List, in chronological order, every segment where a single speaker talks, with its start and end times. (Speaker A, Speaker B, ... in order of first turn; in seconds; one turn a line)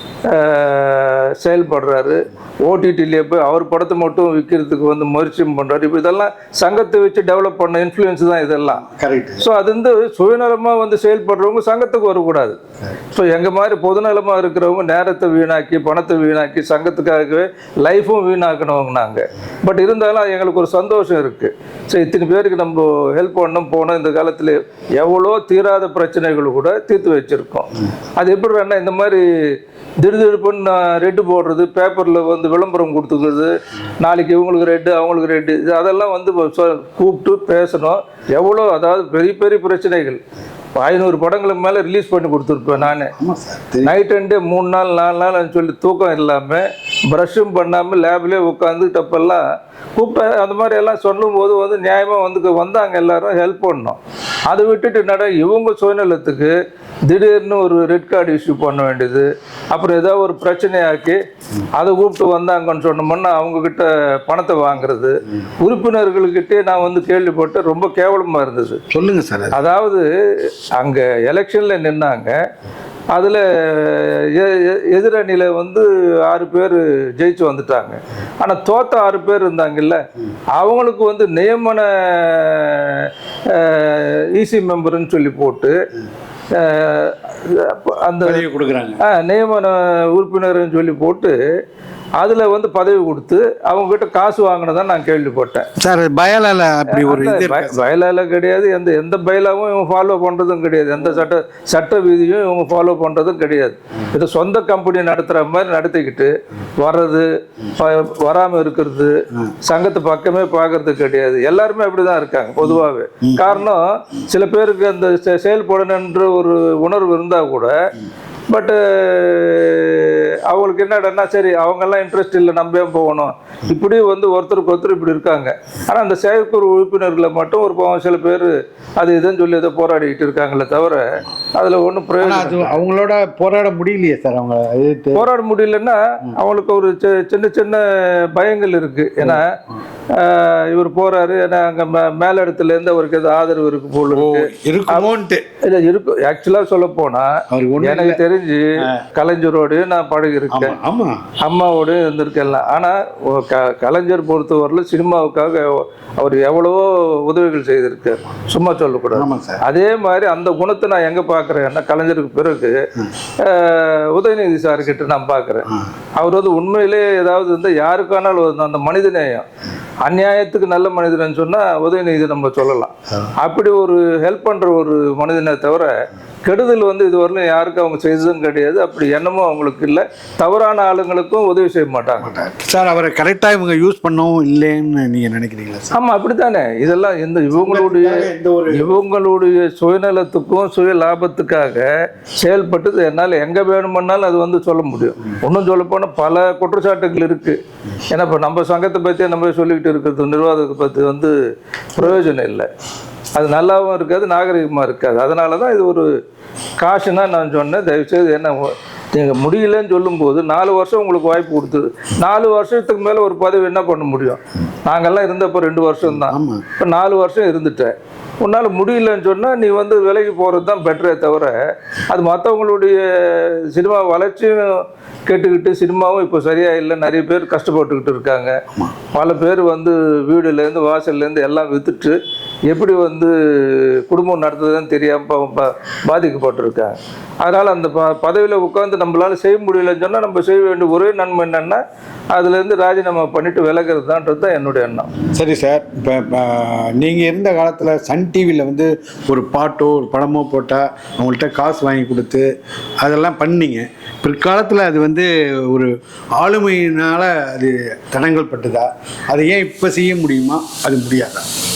Speaker A: 0.2-8.8
Speaker B: 8.7-9.4
Speaker A: 9.4-12.6
Speaker A: 13.1-29.2
Speaker A: 30.0-40.2
Speaker A: 40.8-43.1
Speaker B: 42.8-43.9
Speaker A: 43.8-49.4
Speaker A: 50.0-56.5
Speaker A: 57.1-61.2
Speaker A: 61.8-68.8
Speaker B: 68.9-69.6
Speaker A: 69.5-72.3
Speaker A: 73.1-80.0
Speaker A: 80.6-85.8
Speaker A: 86.5-88.5
Speaker B: 88.2-89.0
Speaker A: 89.0-91.4
Speaker A: 92.2-95.7
Speaker B: 95.8-97.8
Speaker A: 96.9-117.8
Speaker B: 112.6-113.7
Speaker A: 118.5-132.8
Speaker B: 132.2-135.3
Speaker A: 135.1-139.6
Speaker A: 140.1-145.1
Speaker B: 144.1-145.4
Speaker A: 145.6-150.7
Speaker B: 147.5-148.2
Speaker B: 150.5-151.2
Speaker A: 151.4-162.8
Speaker B: 159.1-159.6
Speaker A: 163.4-165.7
Speaker A: 166.2-169.5
Speaker A: 170.0-175.9
Speaker A: 176.4-182.3
Speaker B: 182.2-185.9
Speaker A: 185.9-201.3
Speaker B: 187.5-189.0
Speaker A: 201.9-202.7
Speaker A: 203.3-206.1
Speaker A: 206.8-221.6
Speaker B: 216.0-216.6
Speaker A: 222.1-228.6
Speaker A: 229.1-232.2
Speaker A: 232.7-241.8
Speaker A: 242.3-245.1
Speaker B: 245.3-252.5
Speaker B: 253.0-261.5